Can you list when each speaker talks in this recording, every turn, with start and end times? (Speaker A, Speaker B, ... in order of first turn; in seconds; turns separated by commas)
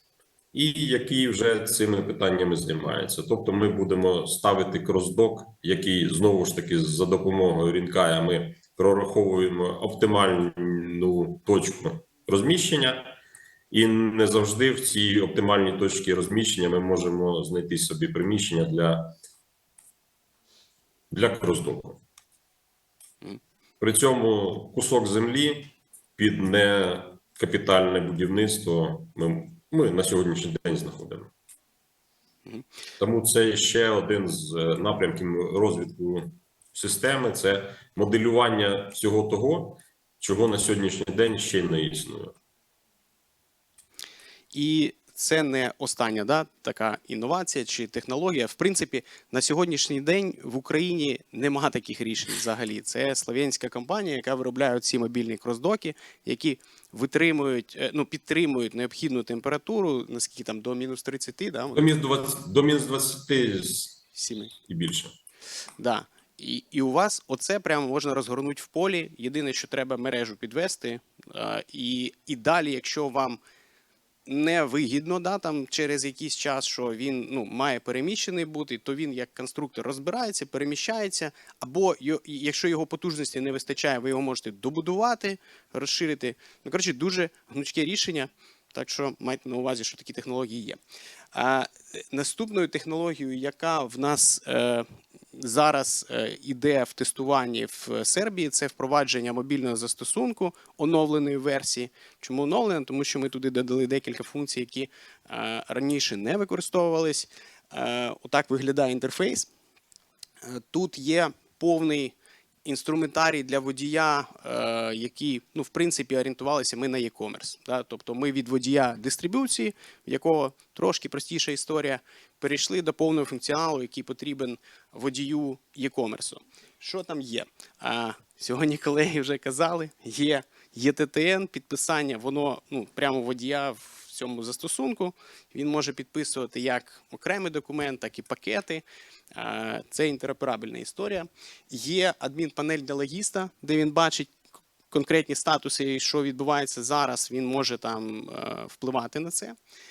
Speaker A: 0.5-13.2, Speaker A: 13.7-19.1, Speaker A: 21.1-22.0, Speaker A: 23.8-31.3, Speaker A: 33.0-42.3, Speaker B: 44.5-61.9, Speaker A: 61.7-64.1, Speaker B: 64.1-64.5, Speaker A: 64.7-65.1, Speaker B: 65.8-73.4, Speaker B: 74.2-90.8, Speaker B: 91.3-109.5, Speaker B: 110.4-144.3, Speaker B: 144.9-149.6